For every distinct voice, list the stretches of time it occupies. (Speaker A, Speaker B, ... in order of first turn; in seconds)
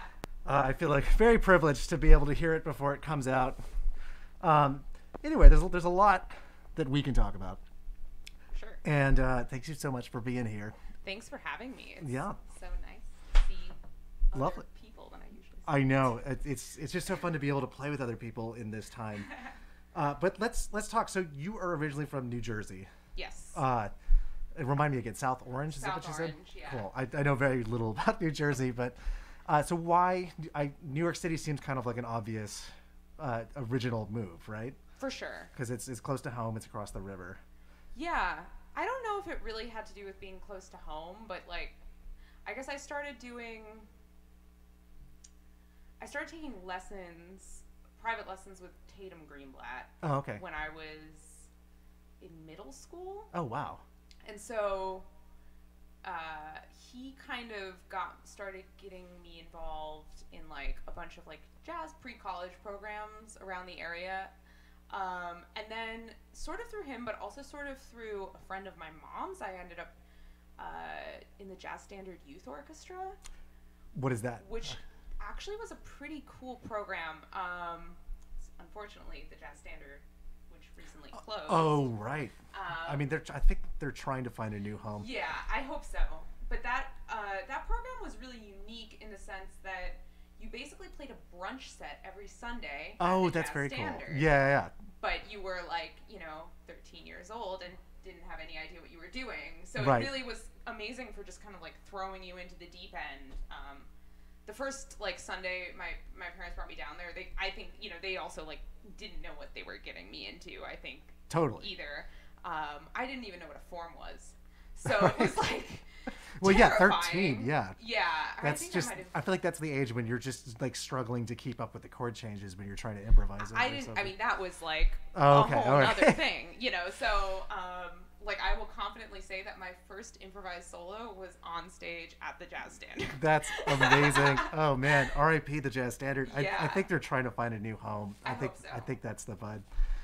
Speaker A: 0.5-3.6, 4.4-7.6, 8.8-10.8, 12.0-12.4, 14.3-14.6, 15.7-19.3, 19.9-22.9, 23.5-23.9, 24.5-34.8, 35.5-37.4, 50.0-50.4, 53.3-53.8, 73.9-74.8, 81.5-85.1, 93.0-94.7, 99.8-100.2, 111.3-111.7, 114.9-115.2, 116.3-117.8, 118.4-124.1, 125.1-126.2, 133.1-139.7
Speaker B: 8.5-8.8, 11.0-13.8, 14.3-16.0, 23.1-23.6, 25.7-26.9, 35.0-35.5, 38.0-41.8, 42.5-43.9, 46.0-51.5, 52.2-53.3, 54.2-55.1, 56.0-64.3, 64.9-69.9, 70.6-73.2, 74.4-81.9, 82.5-83.1, 84.9-94.4, 95.0-103.9, 104.5-119.2, 123.4-134.6, 136.2-136.9, 138.2-138.9